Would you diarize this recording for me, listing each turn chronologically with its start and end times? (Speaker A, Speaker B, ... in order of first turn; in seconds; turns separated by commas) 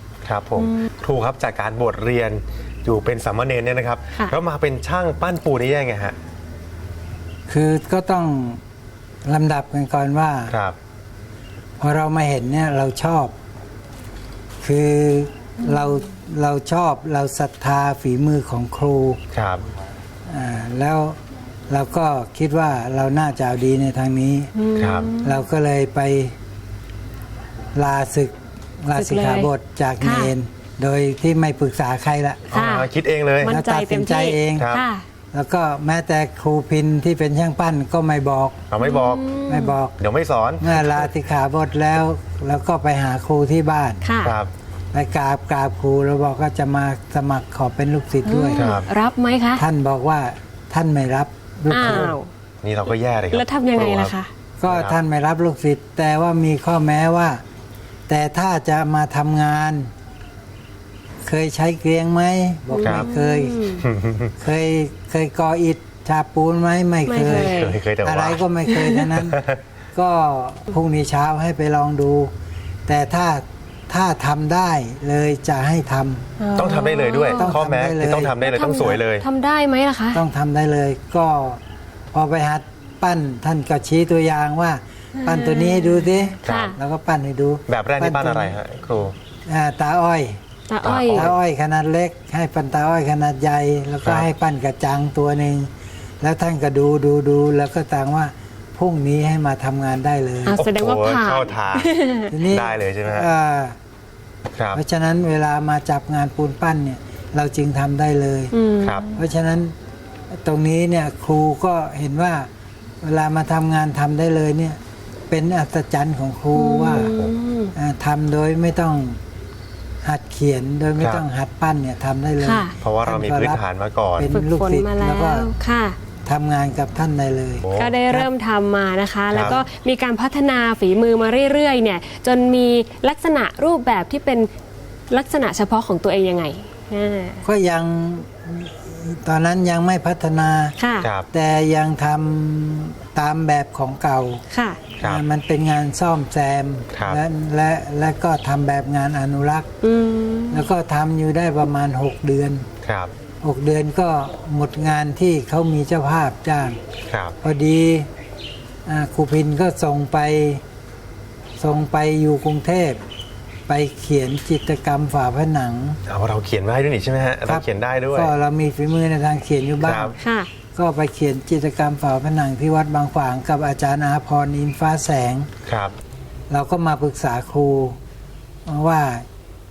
Speaker A: 0.2-6.2, Speaker B: 0.6-0.9, Speaker C: 7.5-8.6, Speaker C: 9.3-10.6, Speaker A: 10.5-10.8, Speaker C: 11.8-13.3, Speaker C: 14.6-19.2, Speaker B: 15.7-16.0, Speaker A: 19.3-19.6, Speaker C: 20.3-21.2, Speaker C: 21.7-24.5, Speaker B: 24.6-25.4, Speaker A: 24.8-25.1, Speaker C: 25.2-26.4, Speaker C: 27.8-32.5, Speaker B: 28.9-30.3, Speaker A: 32.5-33.6, Speaker B: 32.5-35.0, Speaker C: 33.4-34.7, Speaker A: 34.6-34.9, Speaker C: 35.3-38.6, Speaker A: 38.7-39.3, Speaker B: 38.8-39.8, Speaker C: 39.5-39.9, Speaker A: 40.0-41.1, Speaker C: 40.6-44.0, Speaker B: 44.0-44.4, Speaker A: 44.2-44.5, Speaker C: 44.9-48.7, Speaker B: 48.2-49.6, Speaker A: 48.6-48.9, Speaker C: 49.6-52.1, Speaker B: 51.7-52.3, Speaker A: 51.8-52.1, Speaker A: 52.6-54.1, Speaker B: 53.3-54.3, Speaker C: 54.6-57.4, Speaker A: 54.7-55.0, Speaker C: 58.1-59.9, Speaker C: 61.2-63.6, Speaker B: 62.7-63.9, Speaker A: 63.8-64.3, Speaker C: 64.4-69.4, Speaker B: 67.1-67.8, Speaker A: 67.2-68.4, Speaker B: 68.7-69.0, Speaker A: 69.1-69.6, Speaker C: 70.0-72.3, Speaker C: 72.9-76.2, Speaker B: 76.4-77.5, Speaker A: 76.5-79.3, Speaker C: 77.3-78.3, Speaker B: 78.4-80.2, Speaker C: 80.1-81.6, Speaker C: 82.1-88.6, Speaker B: 85.2-86.8, Speaker A: 86.5-86.8, Speaker A: 87.7-89.2, Speaker C: 89.5-90.4, Speaker B: 90.7-91.3, Speaker A: 90.8-91.3, Speaker C: 91.1-95.7, Speaker C: 96.2-100.6, Speaker B: 100.5-102.3, Speaker A: 100.6-101.9, Speaker C: 102.3-103.8, Speaker A: 102.5-103.3, Speaker A: 104.5-104.8, Speaker C: 104.7-108.5, Speaker B: 108.5-109.2, Speaker C: 109.2-109.7, Speaker C: 110.4-112.5, Speaker C: 113.0-114.8, Speaker C: 115.3-117.1, Speaker B: 116.5-117.7, Speaker C: 117.7-119.2, Speaker C: 120.0-123.6, Speaker A: 121.0-121.2, Speaker B: 122.4-122.7, Speaker A: 122.8-124.3, Speaker C: 124.2-125.5, Speaker B: 124.3-126.0, Speaker C: 126.3-128.3, Speaker A: 127.6-128.0, Speaker B: 127.8-134.5, Speaker A: 129.3-129.6, Speaker B: 135.1-137.4, Speaker C: 137.4-140.8, Speaker B: 140.8-141.1, Speaker A: 141.0-141.3, Speaker C: 141.3-144.4, Speaker B: 144.5-144.8, Speaker C: 145.0-149.7, Speaker A: 146.9-147.2, Speaker B: 149.8-150.7, Speaker C: 150.5-152.7, Speaker A: 152.8-153.1, Speaker C: 153.4-156.8, Speaker A: 157.1-157.4, Speaker C: 157.4-158.1, Speaker C: 158.9-160.6, Speaker C: 161.6-163.0, Speaker C: 163.7-166.0, Speaker A: 166.1-168.3, Speaker C: 167.5-170.2, Speaker A: 169.8-170.2, Speaker B: 170.2-170.5, Speaker C: 170.8-175.5, Speaker A: 175.7-176.0, Speaker C: 176.5-178.0, Speaker C: 178.7-179.3